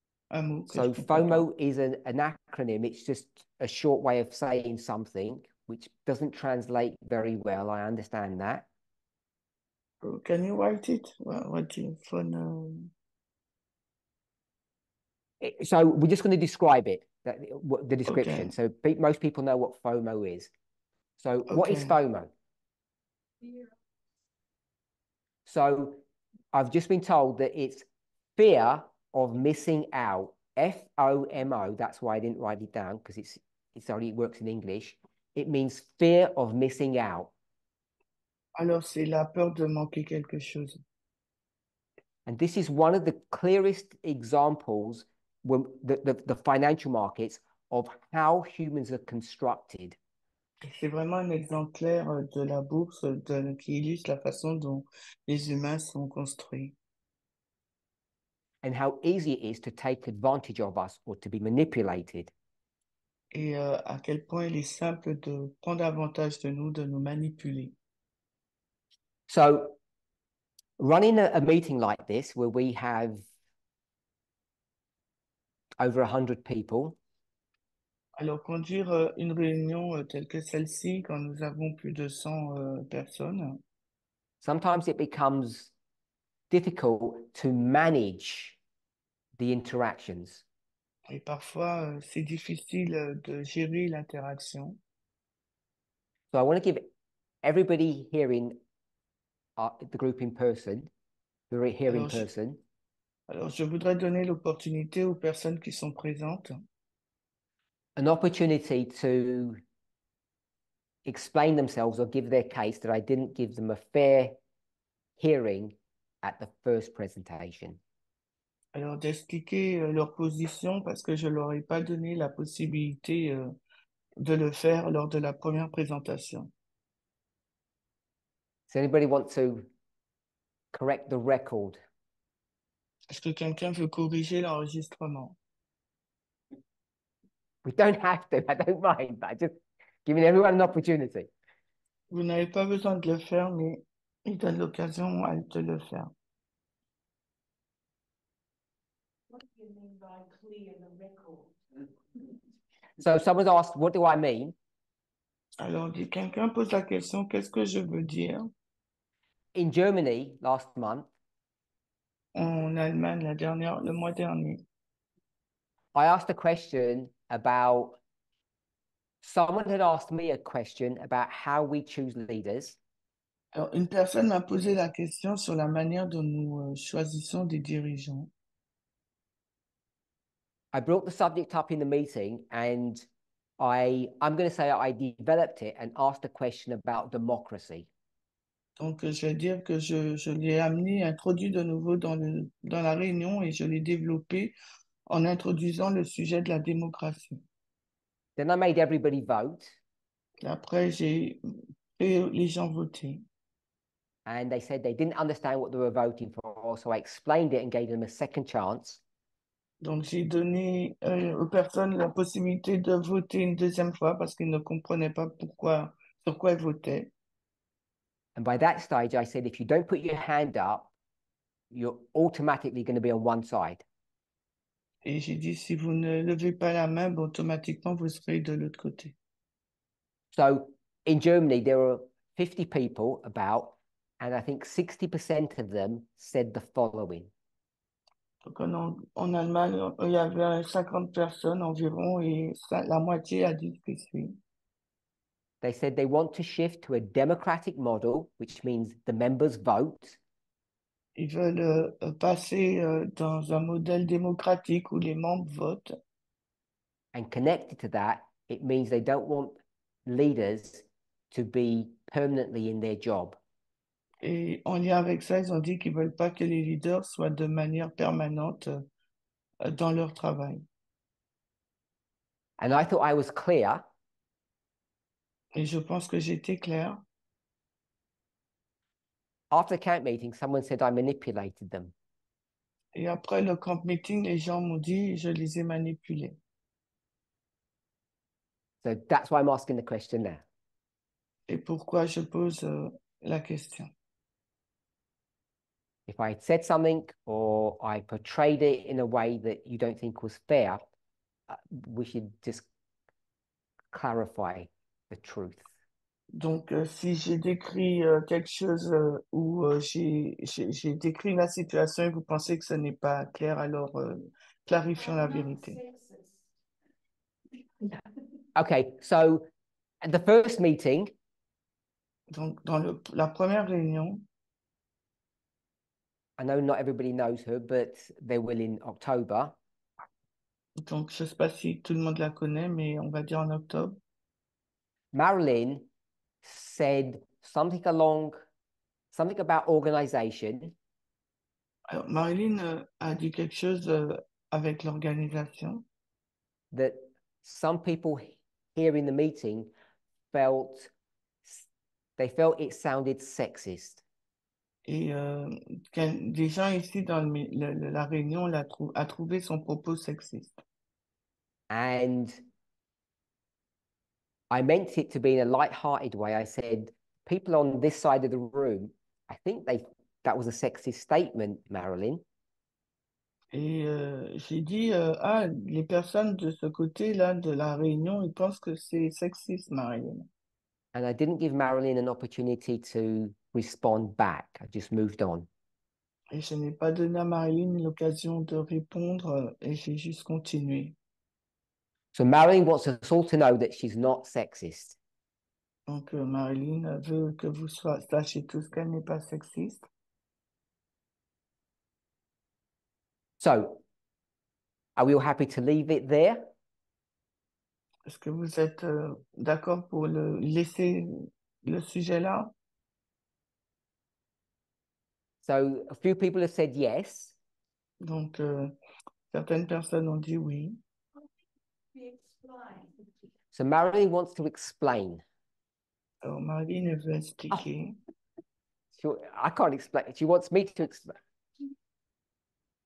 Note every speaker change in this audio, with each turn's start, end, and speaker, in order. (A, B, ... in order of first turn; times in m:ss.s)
0:00.3-0:01.4 A
0:00.7-0:08.7 B
0:10.0-0:12.9 A
0:15.4-0:20.5 B
0:18.1-0:18.5 A
0:21.2-0:22.3 B
0:21.5-0:22.0 A
0:23.4-0:23.7 C
0:25.5-0:26.0 B
0:26.5-0:37.3 B
0:38.6-0:40.8 A
0:42.3-0:50.0 B
0:50.6-0:56.8 A
0:58.6-1:02.3 B
1:03.3-1:07.8 A
1:09.3-1:09.8 B
1:10.8-1:13.2 B
1:15.8-1:17.0 B
1:18.2-1:23.6 A
1:24.4-1:25.7 B
1:26.5-1:28.6 B
1:29.4-1:30.4 B
1:31.1-1:34.8 A
1:36.3-1:36.9 B
1:37.4-1:38.6 B
1:39.6-1:40.9 B
1:41.5-1:42.6 B
1:41.9-1:42.3 A
1:43.3-1:46.6 A
1:48.0-1:49.6 B
1:51.0-1:54.4 B
1:55.2-1:57.8 B
1:58.7-2:03.6 A
2:04.2-2:06.5 A
2:08.7-2:09.7 B
2:10.7-2:11.8 B
2:13.1-2:15.4 A
2:17.6-2:21.3 B
2:22.1-2:26.1 A
2:29.3-2:31.6 C
2:33.0-2:34.6 B
2:35.6-2:38.5 A
2:39.6-2:41.1 B
2:42.4-2:44.6 A
2:45.9-2:48.0 B
2:49.2-2:52.8 B
2:53.5-2:58.3 A
3:00.7-3:03.1 B
3:03.6-3:07.9 B
3:08.8-3:14.6 A
3:15.1-3:17.4 A
3:18.4-3:19.8 B
3:20.4-3:21.4 A
3:22.0-3:23.2 A
3:24.3-3:29.0 B
3:29.8-3:37.1 A
3:38.4-3:40.9 B
3:41.7-3:43.8 B
3:45.0-3:49.2 A
3:50.3-3:57.3 B
3:58.4-4:04.4 A
4:05.6-4:10.2 B
4:11.2-4:16.0 A
4:17.1-4:23.4 B
4:24.2-4:28.9 A
4:29.6-4:30.6 A
4:32.6-4:33.8 B
4:35.6-4:37.0 A
4:39.5-4:41.9 B
4:42.9-4:46.4 A
4:48.8-4:50.4 B
4:51.5-4:53.9 A
4:56.1-5:00.8 B
5:01.5-5:02.7 B
5:03.9-5:05.7 B
5:06.3-5:15.8 A
5:15.0-5:16.5 C
5:18.6-5:19.5 B
5:20.0-5:21.1 B
5:22.3-5:24.3 A
5:26.4-5:29.6 B
5:30.8-5:34.0 A
5:35.1-5:35.9 B
5:36.4-5:38.4 B
5:39.1-5:40.8 B
5:41.9-5:45.9 A
5:46.7-5:49.7 B
5:50.3-5:50.9 B
5:51.4-5:54.0 B
5:54.9-6:00.6 A
6:01.7-6:02.4 B
6:04.5-6:12.2 B
6:13.5-6:20.3 A
6:20.9-6:25.5 B
6:26.3-6:31.0 A
6:32.1-6:35.0 B
6:35.9-6:39.8 A
6:43.4-6:43.8 B
6:45.0-6:46.5 B
6:48.0-6:52.5 A
6:55.4-6:57.4 B
6:58.0-6:58.8 A
6:59.3-7:00.8 A
7:01.9-7:02.9 C
7:03.5-7:05.2 B
7:06.2-7:08.0 A
7:09.0-7:11.2 B